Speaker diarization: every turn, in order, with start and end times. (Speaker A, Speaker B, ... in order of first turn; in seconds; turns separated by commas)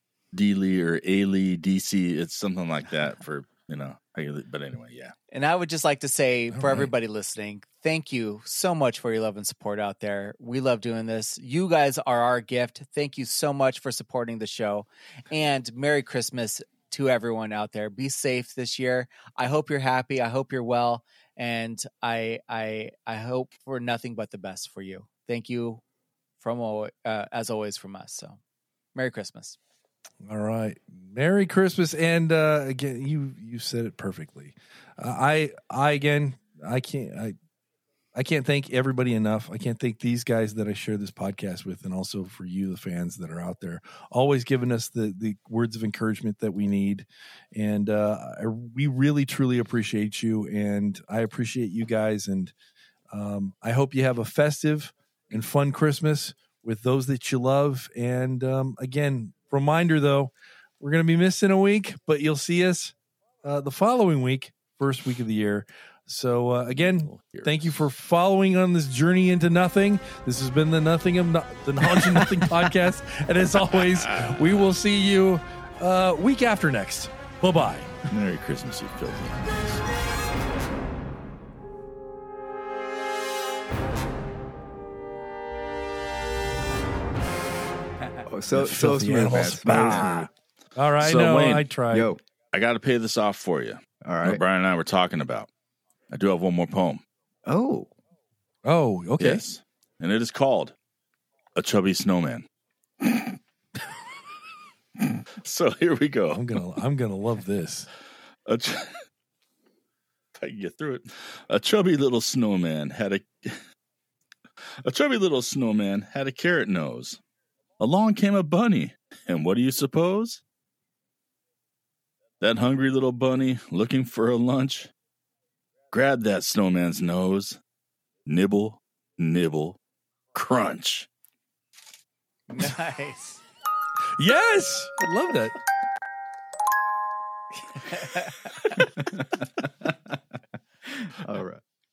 Speaker A: 0.3-5.1, Speaker B: 5.3-25.8, Speaker C: 6.5-6.9, Speaker B: 26.4-28.4, Speaker B: 28.9-29.6, Speaker C: 30.2-37.4, Speaker C: 38.1-52.5, Speaker C: 53.1-78.0, Speaker A: 66.7-67.8, Speaker A: 71.9-72.3, Speaker A: 73.7-74.5, Speaker A: 78.1-79.8, Speaker D: 88.2-90.3, Speaker C: 88.5-92.1, Speaker A: 91.0-91.7, Speaker D: 91.9-92.2, Speaker A: 92.5-95.5, Speaker D: 94.0-94.4, Speaker A: 96.1-97.0, Speaker D: 97.5-97.9, Speaker C: 98.6-99.4, Speaker A: 99.2-100.7, Speaker A: 101.5-102.5, Speaker A: 105.3-106.6, Speaker C: 106.3-107.9, Speaker A: 108.5-109.0, Speaker A: 110.3-113.6, Speaker A: 114.8-117.2, Speaker A: 117.8-120.4, Speaker A: 122.4-124.9, Speaker A: 125.9-127.6, Speaker A: 128.2-129.8, Speaker A: 130.3-131.1, Speaker B: 132.5-133.4, Speaker C: 134.2-135.5, Speaker B: 137.6-138.9, Speaker D: 139.0-140.2, Speaker D: 140.8-141.6